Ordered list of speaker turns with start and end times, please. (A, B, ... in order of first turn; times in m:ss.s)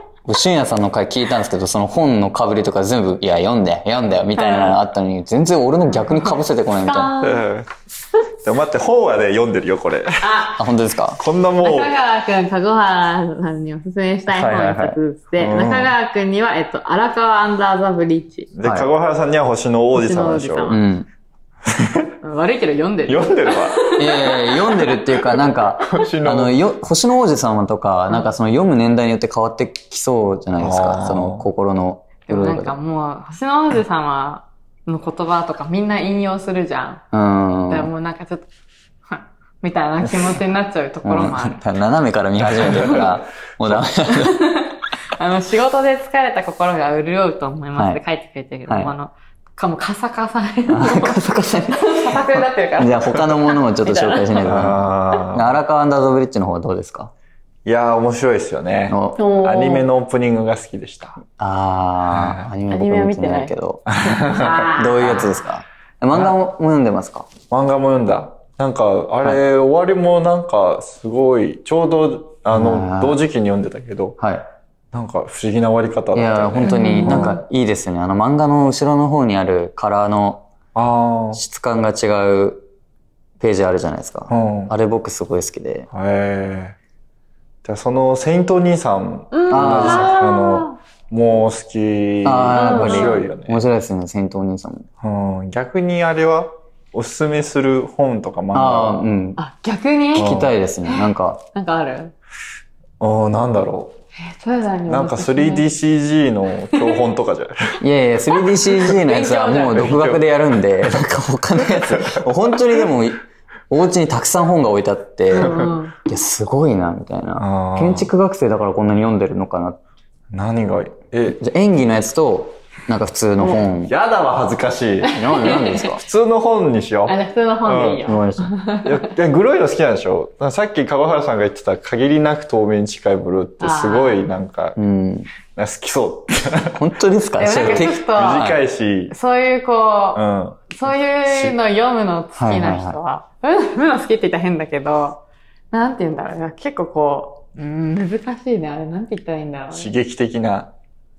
0:00.2-0:07.1 A
0:04.4-0:04.8 B
0:06.0-0:06.3 B
0:06.8-0:07.4 B
0:07.2-0:07.7 C
0:08.4-0:10.4 C
0:10.2-0:10.6 B
0:10.5-0:11.2 A
0:11.2-0:11.9 C
0:11.6-0:18.5 B
0:14.3-0:15.0 A
0:15.4-0:15.9 C
0:18.5-0:20.8 C
0:19.9-0:20.8 B
0:20.7-0:21.1 A
0:21.6-0:22.1 C
0:22.2-0:25.0 B
0:23.1-0:24.0 C
0:24.0-0:32.8 A
0:25.8-0:26.6 C
0:30.6-0:31.5 C
0:32.3-0:37.0 B
0:37.1-0:37.9 A
0:37.7-0:38.5 B
0:39.1-0:41.6 B
0:41.0-0:44.5 A
0:42.4-0:43.8 C
0:42.7-0:43.0 B
0:44.0-0:51.2 B
0:48.7-0:48.9 A
0:50.7-0:57.1 A
0:51.7-0:54.4 B
0:54.4-0:55.6 C
0:57.6-1:01.2 C
0:58.9-0:59.2 A
0:59.1-0:59.8 B
1:01.4-1:03.9 A
1:02.1-1:02.4 C
1:02.7-1:03.5 B
1:03.9-1:04.6 C
1:04.1-1:05.4 B
1:04.5-1:07.3 A
1:07.5-1:14.2 C
1:12.5-1:13.2 A
1:14.2-1:14.4 A
1:14.9-1:17.3 C
1:16.1-1:20.5 A
1:16.6-1:17.4 B
1:20.7-1:21.4 C
1:21.3-1:22.7 A
1:23.4-1:25.9 A
1:24.3-1:24.7 C
1:25.9-1:26.8 C
1:27.6-1:33.6 C
1:29.3-1:30.8 B
1:29.5-1:30.1 A
1:32.2-1:34.9 A
1:32.5-1:33.2 B
1:35.0-1:39.0 C
1:38.5-1:39.4 A
1:39.4-1:42.1 B
1:40.2-1:40.5 C
1:40.2-1:41.4 A
1:43.0-1:44.0 C
1:44.2-1:45.7 B
1:44.9-1:47.8 C
1:47.8-1:59.8 A
1:48.8-1:50.0 B
1:49.7-1:50.2 C
1:51.6-1:52.2 C
1:55.3-1:56.0 B
1:55.3-1:55.7 C
1:57.4-1:58.1 C
2:00.3-2:01.4 C
2:01.3-2:03.9 A
2:03.5-2:05.2 C
2:05.1-2:05.8 B
2:05.1-2:06.0 A
2:05.9-2:08.0 C
2:07.1-2:09.0 B
2:08.0-2:08.5 A
2:08.8-2:14.8 C
2:13.6-2:14.3 B
2:14.8-2:15.3 A
2:15.5-2:16.8 C
2:16.7-2:18.6 A
2:17.4-2:18.5 B
2:17.5-2:19.1 C
2:19.1-2:29.9 B
2:20.1-2:21.6 C
2:22.4-2:23.0 A
2:29.7-2:30.7 C